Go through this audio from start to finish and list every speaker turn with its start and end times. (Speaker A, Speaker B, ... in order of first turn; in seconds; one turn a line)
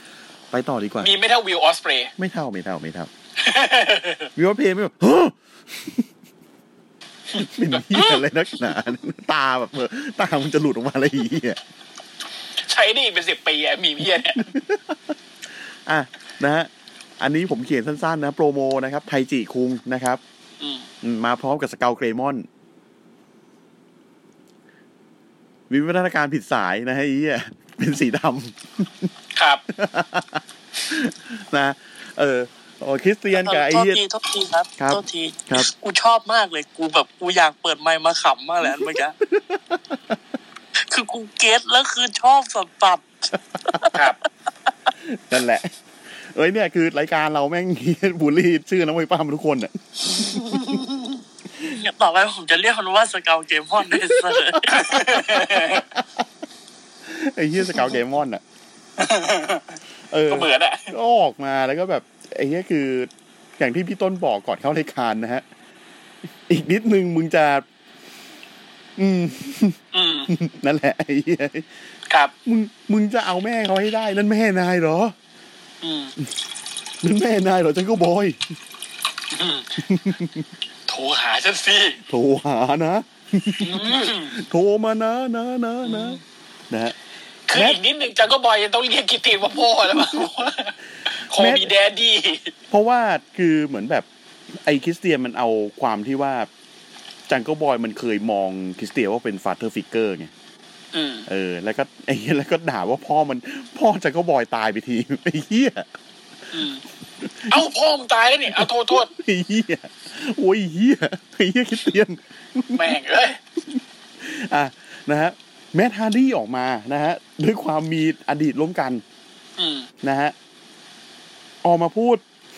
Speaker A: 0.5-1.1
Speaker B: 1.0-2.1
Speaker A: 2.2-3.1
Speaker B: 3.4-4.3
Speaker A: 4.3-6.1
Speaker B: 7.3-8.2
Speaker A: 7.3-11.6
Speaker B: 12.6-14.5
Speaker A: 14.3-15.1
Speaker A: 15.8-16.7
Speaker A: 17.2-20.2
Speaker B: 20.6-20.9
Speaker A: 21.0-22.4
Speaker A: 25.7-29.1
Speaker B: 29.3-29.6
Speaker A: 29.7-34.0
Speaker C: 33.3-39.1
Speaker A: 34.8-35.7
Speaker A: 38.6-40.0
Speaker C: 40.9-44.0
Speaker B: 43.9-44.2
Speaker A: 45.0-45.7
Speaker A: 46.3-50.8
Speaker C: 50.1-51.1
Speaker C: 51.6-55.8
Speaker A: 54.0-54.9
Speaker B: 54.7-55.8
Speaker A: 55.7-56.0
Speaker A: 57.0-58.4
Speaker B: 59.0-60.9
Speaker A: 60.1-65.4
Speaker A: 66.5-67.6
Speaker A: 69.0-71.7
Speaker B: 69.9-70.3
Speaker A: 72.5-75.1
Speaker B: 75.8-76.1
Speaker A: 77.0-78.4
Speaker B: 79.3-79.8
Speaker A: 79.8-80.5
Speaker B: 80.9-82.0
Speaker A: 82.1-86.9
Speaker B: 83.6-84.3
Speaker B: 85.8-86.2
Speaker B: 87.5-92.5
Speaker A: 87.5-87.8
Speaker A: 90.0-90.2
Speaker A: 91.3-91.7
Speaker A: 92.7-96.5
Speaker A: 97.3-100.3
Speaker B: 100.9-101.3
Speaker A: 101.3-105.9
Speaker B: 106.5-106.8
Speaker A: 107.2-107.6
Speaker B: 107.5-109.1
Speaker A: 108.5-112.9
Speaker B: 112.7-113.4
Speaker A: 114.2-119.0
Speaker B: 119.6-119.9
Speaker A: 120.0-120.3
Speaker A: 121.6-122.2